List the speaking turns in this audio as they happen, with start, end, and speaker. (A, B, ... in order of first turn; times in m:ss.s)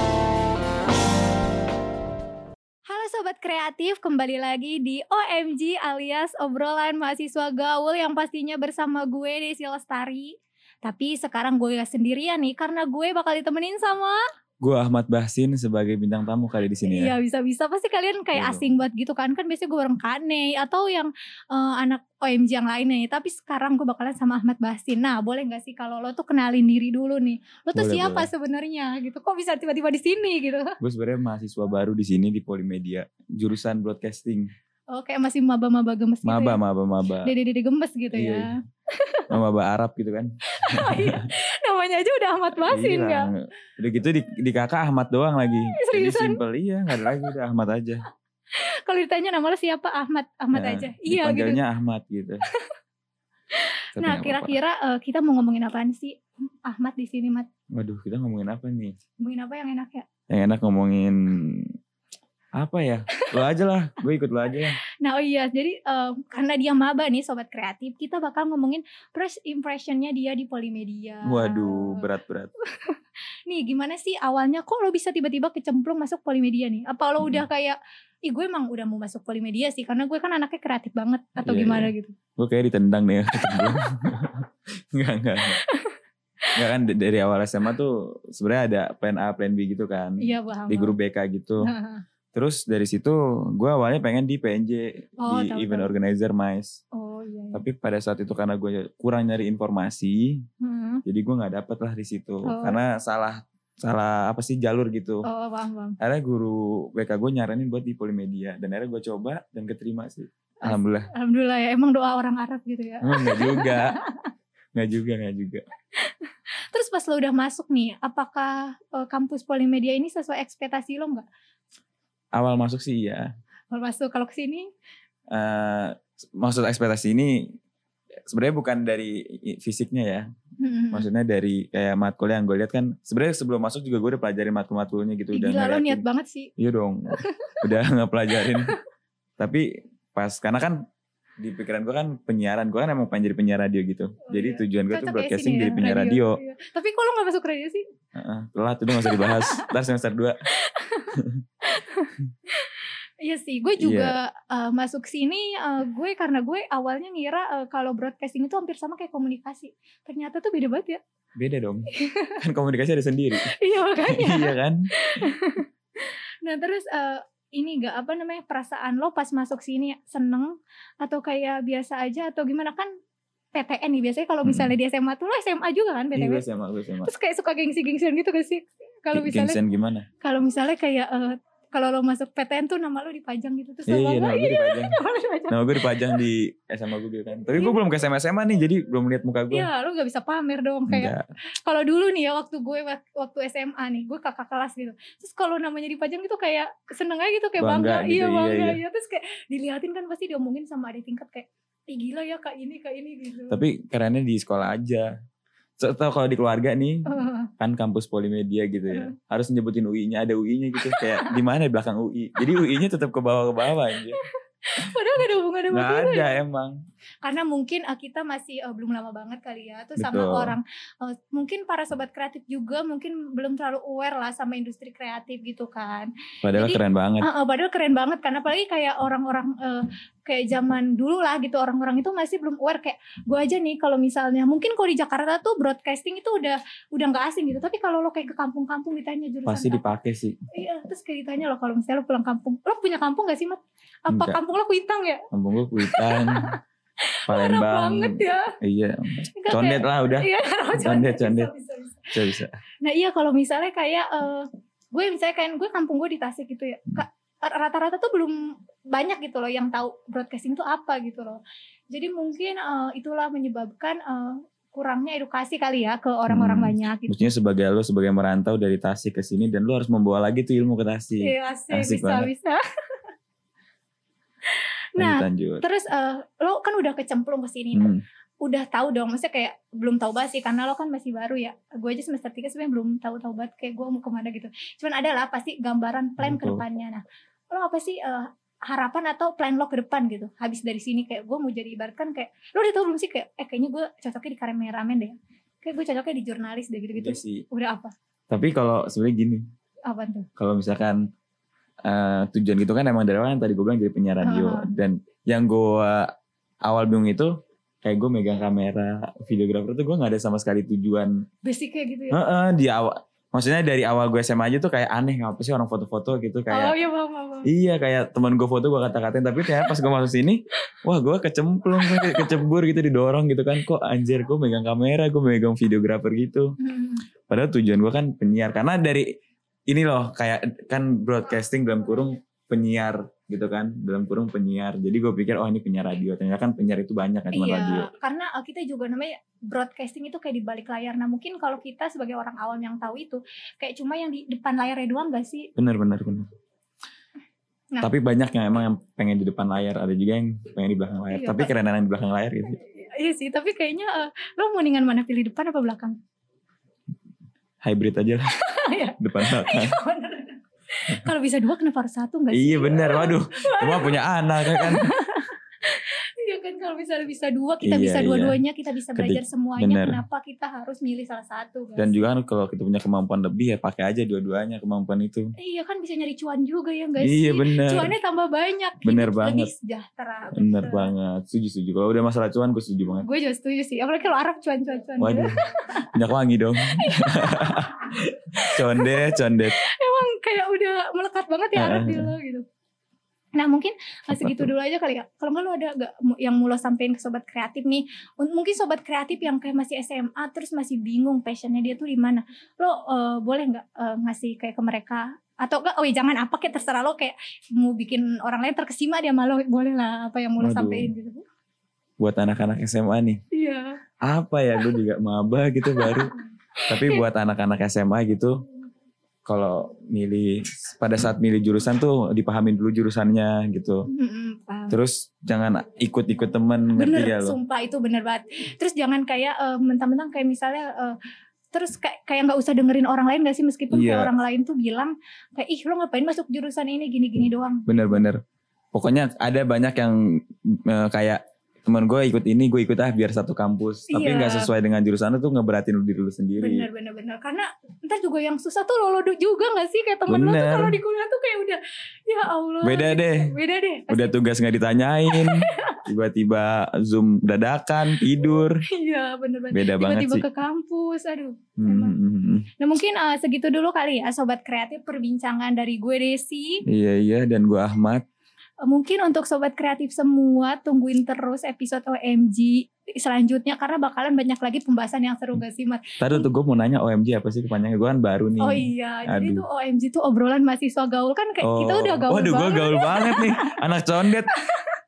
0:02.9-0:14.2 A
0:14.6-0:17.2 B
0:16.8-0:30.8 A
0:18.4-0:18.7 B
0:27.8-0:28.3 B
0:30.8-0:34.5 B
0:34.9-0:36.6 A
0:36.2-0:37.3 B
0:37.2-0:39.3 A
0:38.1-0:38.5 B
0:39.3-0:41.3 B
0:40.6-0:43.3 A
0:42.6-0:48.0 B
0:45.4-0:47.3 A
0:48.9-0:51.6 A
0:50.5-0:52.4 B
0:53.6-0:57.5 A
0:54.0-0:54.6 B
0:57.8-0:59.0 B
0:59.2-1:00.1 A
1:00.3-1:01.7 B
1:02.6-1:04.8 B
1:05.0-1:12.1 A
1:11.2-1:12.5 B
1:12.8-1:22.2 A
1:17.2-1:17.5 B
1:21.4-1:25.6 B
1:25.5-1:26.0 A
1:26.6-1:31.7 B
1:30.2-1:31.0 A
1:31.6-1:32.0 A
1:32.3-1:36.8 B
1:35.2-1:36.0 A
1:36.9-1:37.6 A
1:37.5-1:40.4 B
1:40.6-1:41.0 A
1:41.1-1:45.3 B
1:42.5-1:42.8 A
1:45.2-1:46.0 A
1:46.0-1:51.1 B
1:50.6-1:54.3 A
1:53.0-1:54.0 B
1:54.7-1:55.6 B
1:56.0-2:01.2 A
2:02.3-2:03.3 B
2:03.7-2:04.7 A
2:05.3-2:07.6 B
2:08.3-2:10.3 B
2:10.6-2:11.1 A
2:10.9-2:16.0 B
2:15.3-2:16.5 A
2:16.6-2:18.8 B
2:17.1-2:17.7 A
2:18.4-2:18.8 A
2:19.4-2:20.9 B
2:21.4-2:26.4 B
2:24.2-2:27.8 A
2:28.2-2:30.4 B
2:29.0-2:29.7 A
2:30.5-2:41.0 A
2:31.2-2:31.4 B
2:33.8-2:34.2 B
2:41.4-2:44.9 B
2:41.9-2:42.4 A
2:43.4-2:52.9 A
2:53.5-2:56.4 A
2:54.4-2:54.7 B
2:56.1-2:57.1 B
2:57.0-2:59.6 A
2:59.1-3:00.1 B
3:00.2-3:06.2 A
3:03.9-3:05.0 B
3:05.5-3:09.7 B
3:07.6-3:07.8 A
3:09.5-3:23.6 A
3:10.9-3:11.3 B
3:17.6-3:18.8 B
3:23.5-3:25.1 B
3:25.8-3:34.2 B
3:27.1-3:27.5 A
3:30.8-3:31.4 A
3:33.9-3:36.4 A
3:35.7-3:36.8 B
3:37.2-3:59.8 A
3:40.0-3:40.6 B
3:46.4-3:47.3 B
3:59.5-4:00.4 B
4:00.5-4:05.2 A
4:04.1-4:04.4 B
4:05.3-4:06.6 B
4:05.8-4:06.6 A
4:07.1-4:08.5 A
4:07.3-4:11.5 B
4:09.4-4:12.1 A
4:12.1-4:12.6 B
4:12.8-4:27.2 A
4:26.3-4:32.3 B
4:31.2-4:32.6 A
4:35.0-4:57.9 A
4:35.0-4:35.6 B
4:37.7-4:38.0 B
4:46.2-4:46.6 B
4:56.9-4:57.4 B
4:58.3-4:59.4 B
4:59.9-5:00.3 A
5:00.4-5:01.1 B
5:01.9-5:06.1 B
5:04.2-5:04.7 A
5:06.6-5:07.3 B
5:07.8-5:11.2 B
5:11.4-5:12.2 A
5:12.1-5:16.8 B
5:16.5-5:17.5 A
5:17.4-5:26.6 B
5:21.8-5:22.3 A
5:26.6-5:27.1 A
5:27.3-5:29.1 B
5:29.7-5:37.9 B
5:37.3-5:45.5 A
5:45.6-5:46.3 B
5:47.8-5:52.6 B
5:51.1-5:51.5 A
5:52.5-5:56.0 A
5:57.6-5:58.3 B
5:58.4-6:12.0 A
5:59.0-5:59.8 B
6:02.3-6:04.9 B
6:07.6-6:08.4 B
6:09.0-6:10.0 B
6:11.8-6:15.3 B
6:15.4-6:20.9 A
6:17.0-6:17.9 B
6:18.8-6:19.5 B
6:20.4-6:23.1 B
6:23.0-6:25.9 A
6:25.0-6:29.6 B
6:26.6-6:27.8 A
6:28.4-6:32.4 A
6:31.6-6:32.2 B
6:33.4-6:51.2 A
6:34.1-6:34.5 B
6:50.4-6:50.9 B
6:52.0-6:53.2 B
6:53.3-6:53.8 A
6:54.0-6:56.1 B
6:55.7-6:57.1 A
6:56.7-6:58.4 B
6:59.3-7:03.9 B
7:03.9-7:04.8 A
7:04.7-7:07.4 B
7:06.8-7:11.0 A
7:11.5-7:18.0 A
7:13.7-7:14.1 B
7:17.7-7:18.2 B
7:18.7-7:26.7 B
7:23.9-7:24.5 A
7:26.4-7:34.1 A
7:30.1-7:30.8 B
7:32.6-7:33.4 B
7:33.9-7:38.6 B
7:35.1-7:35.8 A
7:37.9-7:42.0 A
7:39.5-7:40.3 B
7:41.6-7:42.5 B
7:42.6-7:46.6 A
7:46.7-7:48.0 B
7:48.6-7:56.3 A
7:56.0-7:59.5 B
7:58.4-8:03.6 A
8:01.4-8:04.3 B
8:04.3-8:04.8 A